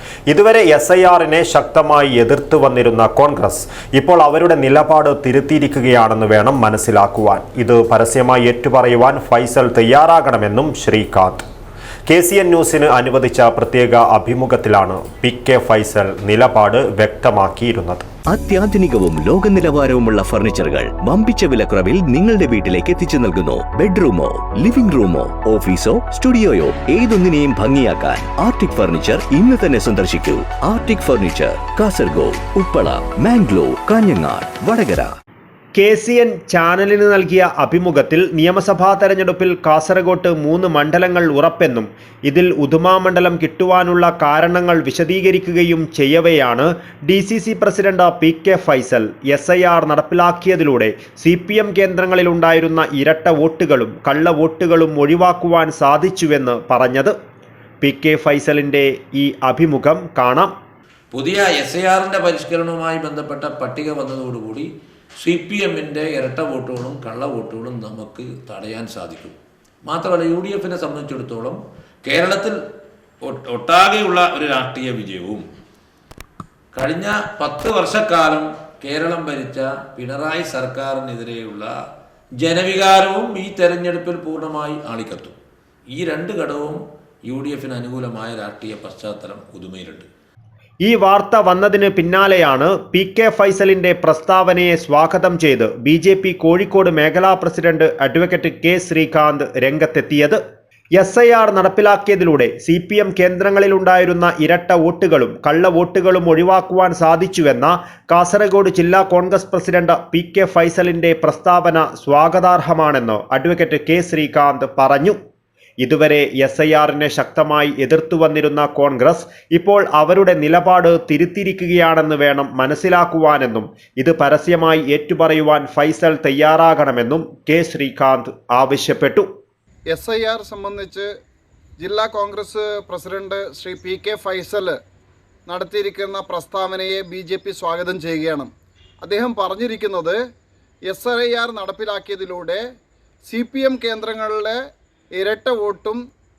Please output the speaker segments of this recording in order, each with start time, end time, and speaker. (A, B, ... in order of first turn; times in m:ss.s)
0:00.3-0:11.4 A
0:12.1-0:18.0 A
0:18.3-0:35.1 B
0:35.8-0:57.2 A
0:57.8-1:00.6 A
1:01.1-1:04.7 C
1:05.2-1:12.6 C
1:13.2-1:15.4 C
1:16.7-1:21.7 C
1:22.4-1:25.4 C
1:25.9-1:30.1 C
1:30.8-1:40.4 A
1:41.0-1:55.2 A
1:55.8-2:09.3 A
2:09.9-2:11.1 D
2:11.8-2:14.8 D
2:15.5-2:18.5 D
2:19.0-2:20.2 D
2:20.9-2:22.6 D
2:23.3-2:24.6 D
2:25.2-2:26.0 D